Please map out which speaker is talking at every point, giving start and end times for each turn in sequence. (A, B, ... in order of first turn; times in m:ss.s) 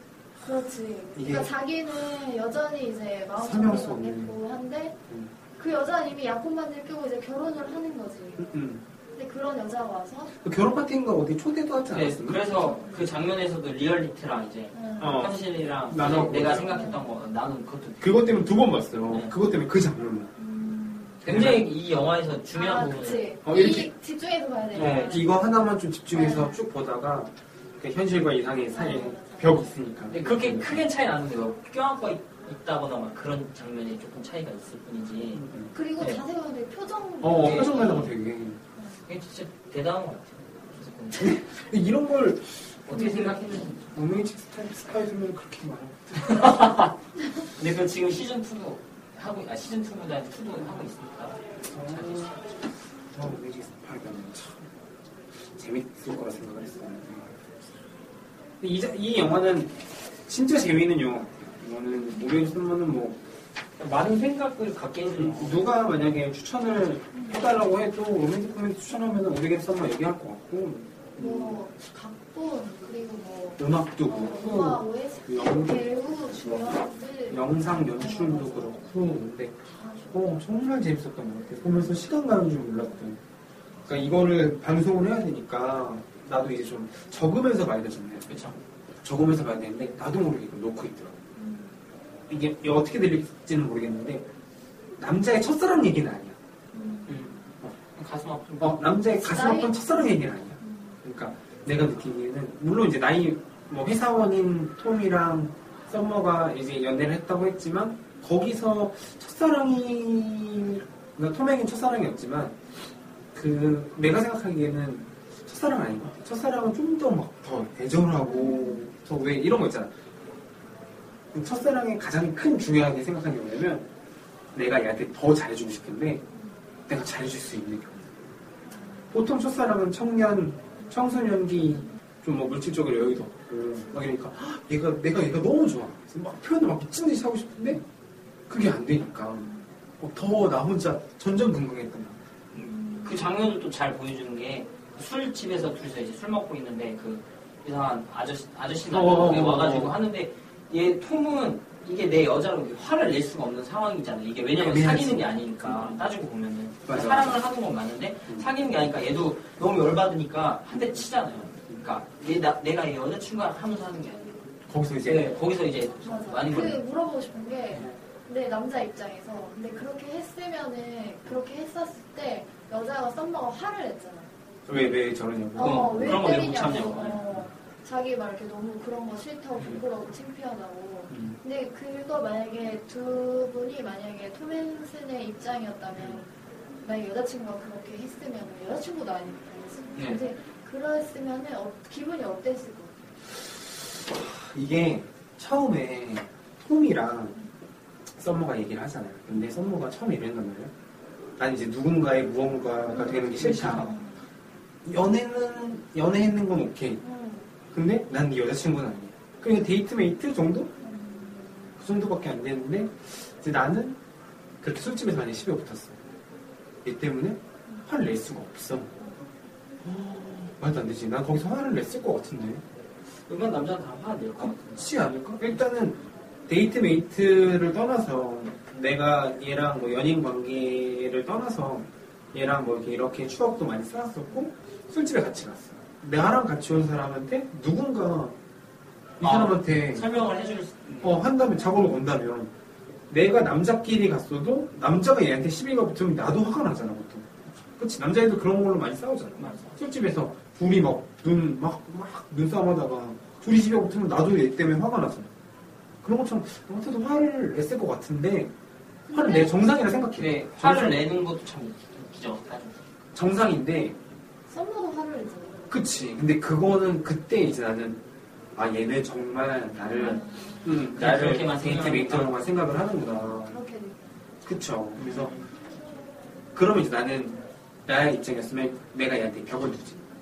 0:00.4-0:05.0 A
0:01.1-0:01.5 B
0:03.4-0:04.3 B
0:05.6-0:08.5 A
0:08.4-0:08.8 B
0:09.2-0:10.3 A
0:10.4-0:12.4 B
0:11.9-0:18.5 C
0:12.6-0:13.0 A
0:14.7-0:15.2 A
0:15.0-0:16.8 B
0:16.7-0:17.0 A
0:18.0-0:20.3 B
0:19.1-0:19.3 C
0:20.4-0:21.2 A
0:21.2-0:23.3 C
0:21.2-0:21.7 B
0:22.5-0:25.3 A
0:23.4-0:23.9 B
0:24.7-0:25.2 C
0:24.7-0:30.8 B
0:26.1-0:26.6 A
0:28.7-0:29.7 A
0:30.1-0:35.5 C
0:35.3-0:35.7 B
0:35.7-0:38.1 A
0:37.2-0:38.6 B
0:37.4-0:38.0 C
0:38.8-0:39.0 A
0:39.1-0:41.4 C
0:41.2-0:43.3 B
0:42.9-0:43.9 C
0:43.9-0:46.4 B
0:46.2-0:46.9 C
0:47.6-0:52.4 C
0:51.7-0:52.3 B
0:53.1-0:54.7 B
0:55.4-0:57.3 B
0:58.6-0:59.7 B
1:00.3-1:03.2 B
1:03.8-1:05.6 C
1:05.2-1:11.6 B
1:07.1-1:07.4 A
1:11.2-1:18.9 A
1:13.6-1:23.2 B
1:19.7-1:20.3 A
1:23.8-1:28.4 B
1:28.3-1:28.6 C
1:29.0-1:31.2 B
1:31.4-1:31.8 A
1:32.3-1:34.3 B
1:35.0-1:36.4 B
1:36.7-1:37.5 A
1:37.1-1:37.3 C
1:37.9-1:38.9 C
1:38.6-1:52.6 B
1:39.2-1:41.0 A
1:53.3-1:59.9 B
1:58.2-1:58.8 A
2:01.3-2:03.9 B
2:04.5-2:06.2 B
2:06.9-2:08.1 B
2:08.7-2:09.1 A
2:09.1-2:17.8 B
2:18.5-2:22.2 B
2:22.5-2:44.5 C
2:22.6-2:23.3 A
2:28.9-2:30.0 B
2:34.6-2:36.0 B
2:36.8-2:37.4 B
2:44.7-2:45.3 B
2:45.0-2:46.8 C
2:46.0-2:54.3 A
2:54.7-2:56.2 B
2:55.5-3:06.3 A
2:55.6-2:57.2 C
3:01.1-3:01.3 C
3:06.8-3:13.1 A
3:13.8-3:17.4 B
3:18.1-3:20.7 B
3:21.4-3:23.9 B
3:22.9-3:24.2 A
3:23.4-3:23.9 C
3:24.8-3:27.0 B
3:27.0-3:27.5 A
3:27.7-3:30.7 B
3:30.8-3:31.8 A
3:31.8-3:34.0 B
3:34.6-3:36.0 B
3:36.8-3:38.9 B
3:39.8-3:42.6 B
3:43.3-3:44.8 C
3:44.4-3:58.4 B
3:59.2-4:00.2 B
3:59.2-4:01.2 C
4:01.0-4:02.5 B
4:03.1-4:15.3 B
4:09.4-4:09.7 C
4:16.0-4:18.5 B
4:19.1-4:19.6 A
4:19.1-4:21.0 B
4:20.2-4:22.8 C
4:23.1-4:24.0 B
4:24.5-4:25.6 A
4:25.7-4:28.0 B
4:28.5-4:33.6 B
4:29.9-4:30.8 A
4:30.9-4:32.3 C
4:33.4-4:34.0 A
4:34.4-4:35.3 B
4:35.0-4:35.4 C
4:36.5-4:40.0 B